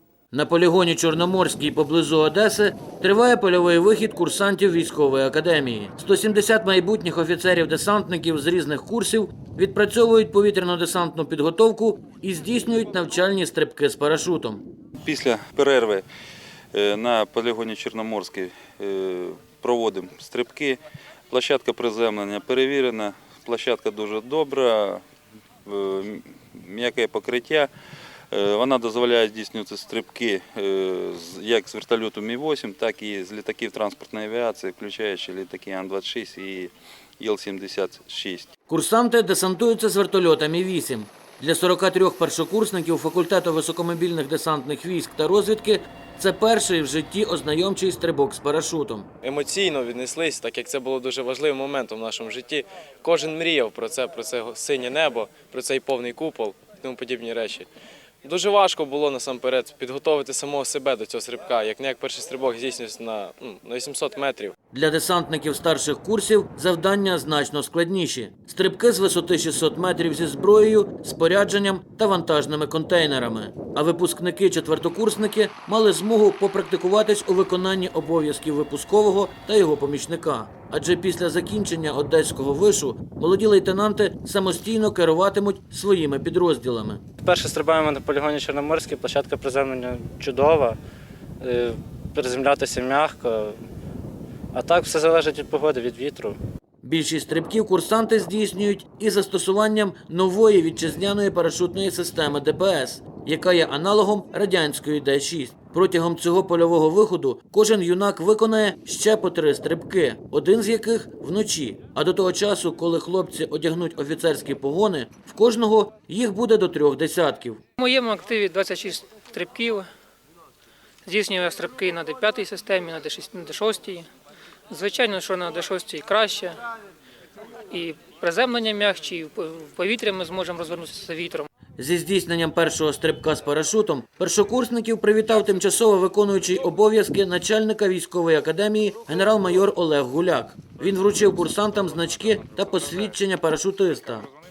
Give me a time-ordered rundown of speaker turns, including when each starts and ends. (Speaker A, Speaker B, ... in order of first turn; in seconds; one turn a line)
Speaker A: 0.3-14.6
Speaker B: 15.0-16.0
Speaker B: 16.7-20.8
Speaker B: 21.3-25.0
Speaker B: 25.6-27.7
Speaker B: 28.3-38.5
Speaker A: 38.7-49.1
Speaker C: 49.2-57.7
Speaker C: 58.2-64.5
Speaker A: 64.7-87.0
Speaker D: 87.2-90.8
Speaker D: 91.4-93.6
Speaker D: 94.5-96.4
Speaker A: 96.8-117.6
Speaker E: 117.8-119.9
Speaker E: 121.0-124.1
Speaker E: 124.7-126.6
Speaker E: 127.7-131.5
Speaker A: 131.8-144.3